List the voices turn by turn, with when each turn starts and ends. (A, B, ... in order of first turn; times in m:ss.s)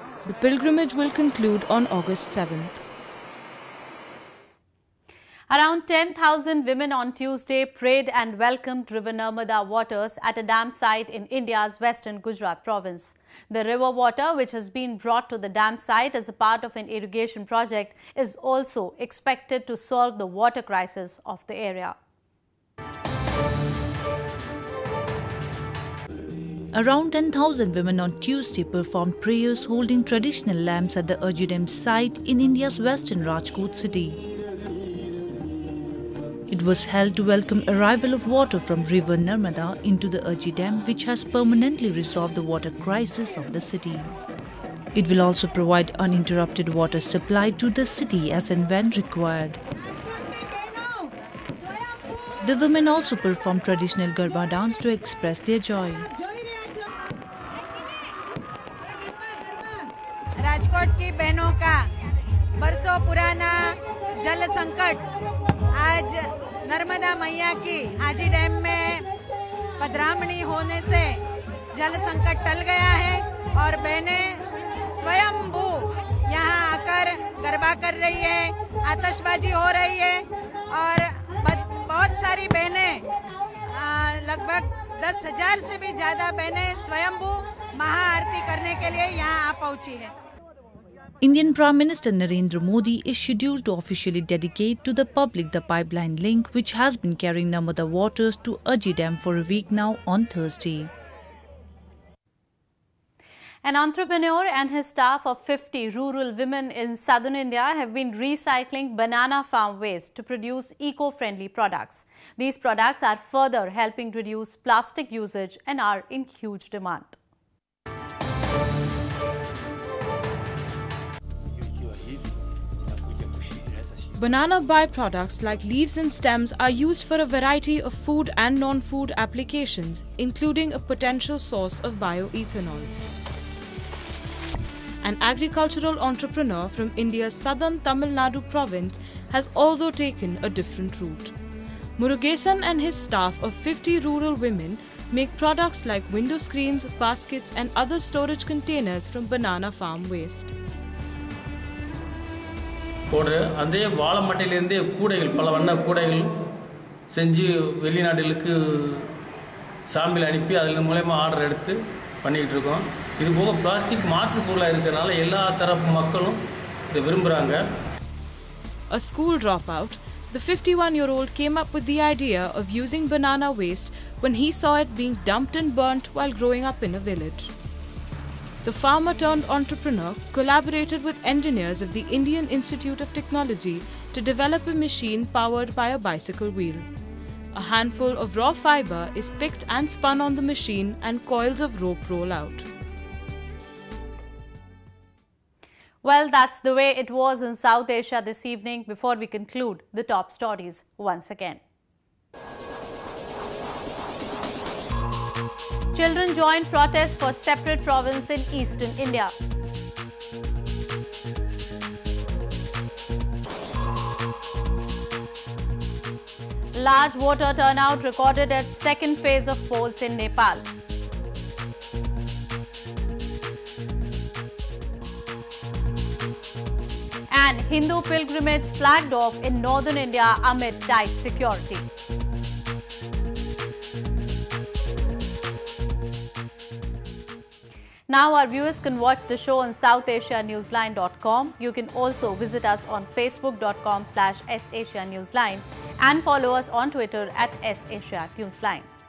0:00.2-0:02.8 A
0:05.5-0:22.0 B
0:26.7-0:34.2 C
0:36.5-0:44.1 C
0:44.9-0:49.6 C
0:52.4-0:56.1 C
1:00.4-1:01.8 D
1:02.6-1:05.0 D
1:05.8-1:09.1 D
1:09.8-1:23.0 D
1:23.7-1:30.1 D
1:31.2-1:40.9 C
1:43.6-1:57.2 B
2:04.1-2:12.9 A
2:15.0-2:21.4 A
2:22.0-2:30.5 A
2:33.1-2:36.3 E
2:37.1-2:39.0 E
2:39.9-2:46.4 E
2:46.9-2:47.6 E
2:48.9-2:57.5 A
2:58.6-3:06.9 A
3:07.5-3:12.7 A
3:16.0-3:21.6 B
3:25.9-3:29.3 B
3:36.7-3:40.6 B
3:47.3-3:51.9 B
3:58.1-4:08.9 B